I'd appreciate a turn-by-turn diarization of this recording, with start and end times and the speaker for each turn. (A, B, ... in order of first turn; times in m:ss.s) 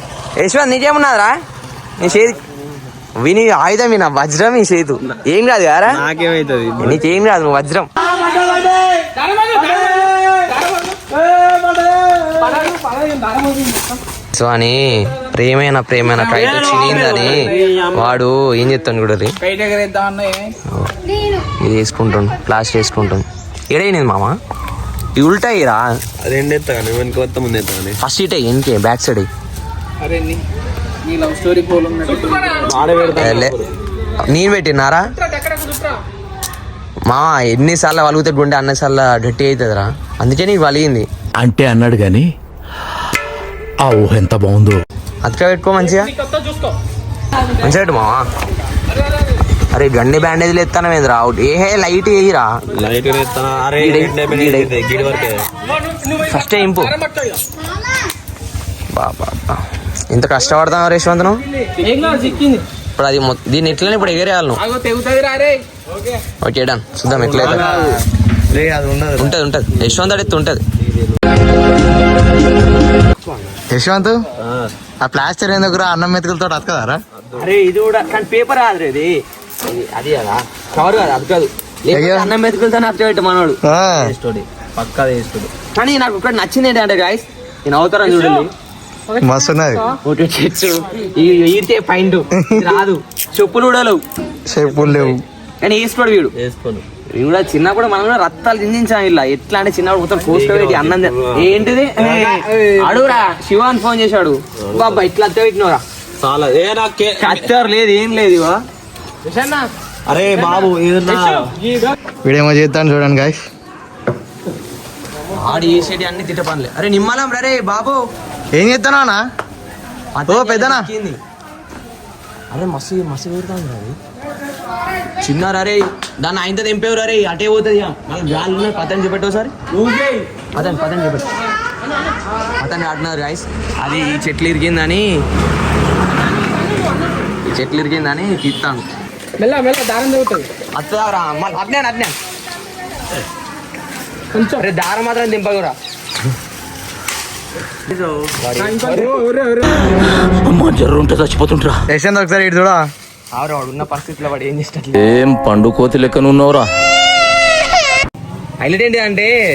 0:00.4-0:01.4 A
0:02.0-0:02.4 A
0:02.0-0:02.6 B
0:03.2-0:06.0 A
0:05.9-0:07.1 B
0:06.8-0:07.9 A
0:08.0-0:10.4 B
0:09.2-0:11.0 C
0:11.1-0:12.4 B
0:12.4-0:14.0 C
0:14.3-0:19.3 A
0:16.2-0:18.2 B
0:17.2-0:17.8 C
0:19.4-0:20.4 C
0:21.6-0:24.4 A
0:25.2-0:25.9 A
0:26.2-0:28.0 B
0:28.0-0:29.3 A
0:30.0-0:30.4 C
0:31.1-0:33.1 C
0:32.6-0:33.7 B
0:33.2-0:33.5 A
0:34.2-0:35.1 A
0:35.2-0:36.0 C
0:37.1-0:41.1 A
0:41.4-0:42.3 D
0:43.8-0:44.8 D
0:45.2-0:46.1 A
0:45.9-0:46.8 C
0:47.6-0:48.3 A
0:49.7-0:52.6 A
0:52.7-0:55.5 B
0:53.8-0:54.7 A
0:55.6-0:57.4 C
0:56.3-0:56.9 A
0:58.9-1:01.4 A
1:01.6-1:02.6 C
1:03.0-1:04.6 A
1:04.6-1:06.1 C
1:06.4-1:07.8 A
1:07.1-1:07.8 B
1:07.4-1:07.9 E
1:08.5-1:09.4 E
1:09.2-1:10.6 A
1:09.8-1:11.2 B
1:13.7-1:14.2 E
1:14.4-1:14.7 B
1:15.0-1:17.0 E
1:17.2-1:17.5 B
1:17.4-1:23.6 A
1:21.9-1:22.3 E
1:23.6-1:24.1 E
1:23.7-1:25.5 B
1:25.8-1:28.5 A
1:28.1-1:28.5 C
1:29.1-1:30.0 C
1:29.2-1:29.8 E
1:30.0-1:34.0 A
1:32.4-1:32.7 E
1:34.5-1:35.2 E
1:35.6-1:36.3 A
1:36.4-1:36.8 B
1:37.2-1:45.8 A
1:40.3-1:42.4 B
1:42.5-1:43.1 C
1:44.6-1:45.0 B
1:46.2-1:47.5 B
1:47.2-1:48.6 A
1:49.3-1:49.6 C
1:50.1-1:51.5 B
1:51.2-1:51.9 C
1:52.2-1:53.4 E
1:55.4-1:58.0 A
1:58.6-1:59.2 E
2:00.2-2:01.2 A
2:00.3-2:00.9 E
2:02.5-2:04.0 A
2:05.2-2:09.6 A
2:09.7-2:10.2 B
2:10.6-2:11.3 A
2:12.6-2:15.1 A
2:17.5-2:18.8 A
2:19.4-2:20.5 C
2:20.8-2:22.2 A
2:24.3-2:24.7 C
2:24.6-2:25.8 A
2:28.4-2:29.2 A
2:28.6-2:29.9 C
2:30.3-2:31.7 D
2:31.9-2:32.9 E
2:33.4-2:35.1 A
2:35.0-2:36.7 D
2:38.6-2:39.3 A